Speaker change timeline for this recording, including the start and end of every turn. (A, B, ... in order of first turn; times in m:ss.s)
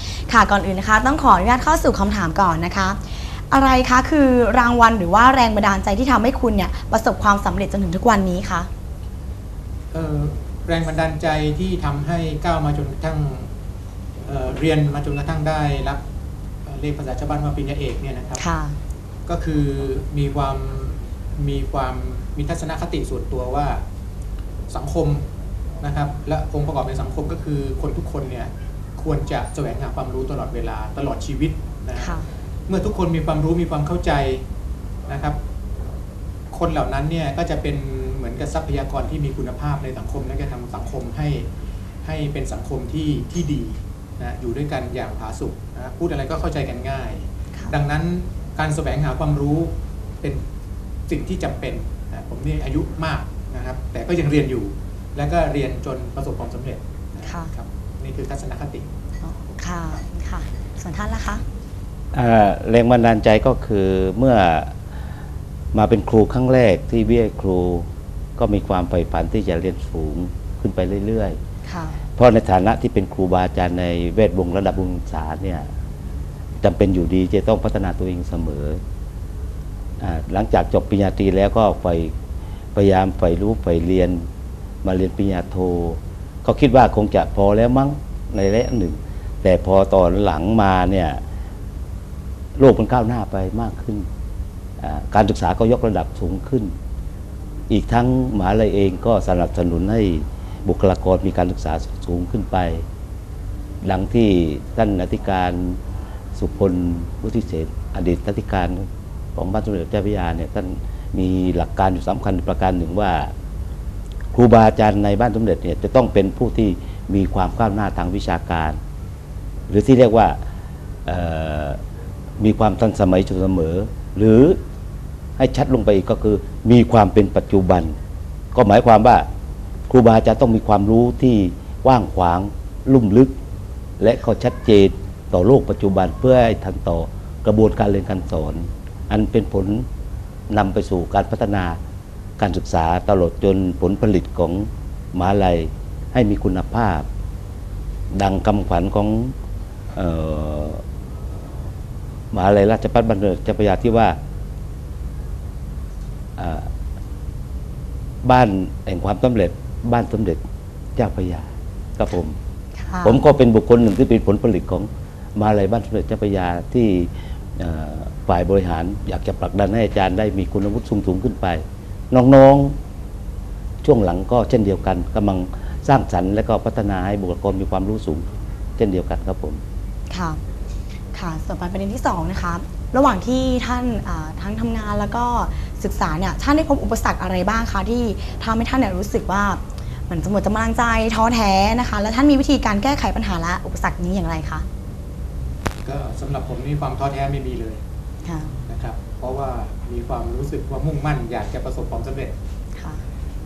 0:00.3-0:08.7 A
0:09.9-0:13.5 B
0:14.2-0:16.0 B
0:16.6-0:18.4 B
0:18.4-0:18.8 A
0:19.2-0:23.8 B
0:24.7-0:25.3 B
0:25.8-0:32.1 B
0:32.0-0:32.2 A
0:32.7-0:34.4 B
0:35.1-0:35.4 B
0:36.5-0:41.5 B
0:42.0-0:50.4 B
0:51.1-0:58.9 B
0:57.2-0:57.5 A
0:59.2-1:01.4 A
1:02.1-1:04.7 C
1:05.7-1:11.4 C
1:11.6-1:12.0 A
1:12.2-1:15.7 C
1:16.6-1:18.8 C
1:20.0-1:22.1 C
1:22.7-1:24.3 C
1:24.8-1:31.2 C
1:32.6-1:34.1 C
1:34.8-1:36.7 C
1:37.7-1:42.8 C
1:43.8-1:45.8 C
1:46.4-1:53.3 C
1:54.3-1:58.8 C
1:59.7-2:00.4 C
2:01.0-2:01.8 C
2:02.4-2:04.6 C
2:05.4-2:08.0 C
2:08.5-2:09.3 C
2:09.9-2:13.3 C
2:14.0-2:19.8 C
2:20.5-2:21.8 C
2:22.4-2:27.1 C
2:28.1-2:29.3 C
2:29.9-2:30.8 C
2:32.3-2:34.2 C
2:36.4-2:36.7 C
2:38.2-2:40.4 C
2:41.0-2:42.4 C
2:42.8-2:43.2 A
2:43.0-2:52.8 C
2:53.8-2:58.2 C
2:58.8-2:59.6 C
3:00.1-3:00.4 A
3:01.1-3:14.6 A
3:15.8-3:17.8 B
3:18.2-3:18.5 A
3:18.7-3:22.4 B
3:22.8-3:23.0 A